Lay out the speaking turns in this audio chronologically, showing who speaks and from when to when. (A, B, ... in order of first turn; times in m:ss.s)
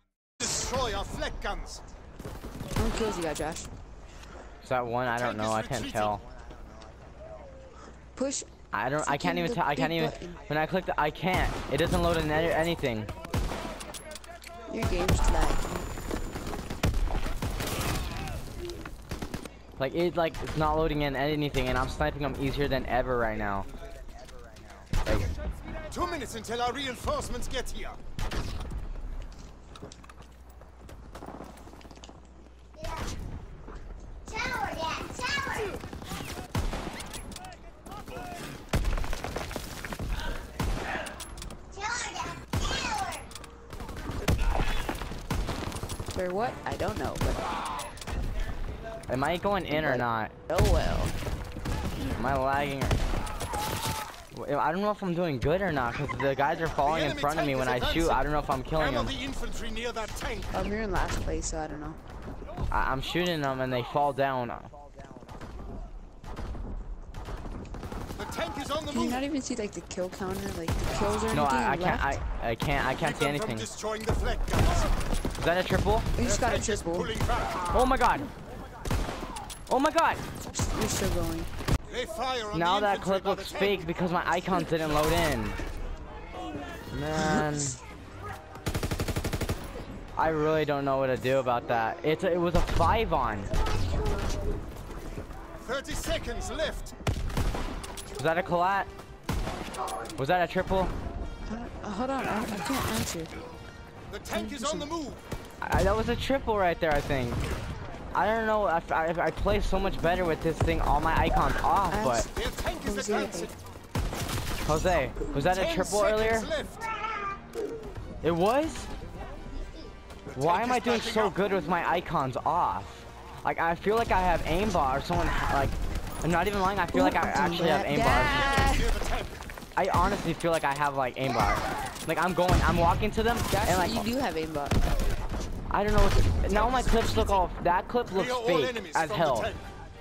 0:00.4-0:01.8 A
0:02.8-0:03.7 B
0:04.6-0:06.2 C
0:05.2-0:06.2 A
0:08.2-0:08.5 B
0:08.7-0:13.1 C
0:09.0-0:10.4 B
0:14.7-0:15.9 B
0:19.8-0:23.7 C
0:25.0-0:25.3 C
0:25.9-0:28.0 A
0:34.3-0:35.8 D
0:41.8-0:43.2 D
0:46.1-0:47.5 B
0:49.1-0:50.3 C
0:49.7-0:51.1 B
0:52.0-0:53.0 C
0:54.3-0:59.1 C
0:56.8-0:58.2 A
0:58.8-1:00.5 A
1:00.5-1:02.0 B
1:02.7-1:04.7 C
1:08.2-1:09.2 A
1:08.9-1:12.2 B
1:11.3-1:13.7 C
1:13.0-1:14.9 A
1:15.4-1:16.1 C
1:16.2-1:17.1 B
1:16.2-1:17.7 A
1:17.7-1:18.3 C
1:19.7-1:20.2 C
1:20.5-1:21.5 B
1:21.9-1:23.9 A
1:22.5-1:25.6 C
1:26.9-1:27.8 C
1:30.2-1:33.5 C
1:35.6-1:36.9 A
1:38.1-1:38.9 C
1:40.2-1:40.9 C
1:41.4-1:43.3 B
1:44.1-1:45.2 A
1:44.3-1:44.9 B
1:45.6-1:47.4 C
1:48.1-1:52.2 C
1:51.9-1:53.6 B
1:52.4-1:53.5 A
1:54.7-1:56.5 C
1:55.5-1:56.9 A
1:58.2-1:58.9 C
2:00.3-2:01.4 A
2:00.3-2:08.7 C
2:06.9-2:08.9 B
2:08.3-2:09.4 A
2:09.8-2:14.1 C
2:13.5-2:14.8 B
2:15.7-2:19.5 C
2:16.5-2:17.4 A
2:18.1-2:19.6 A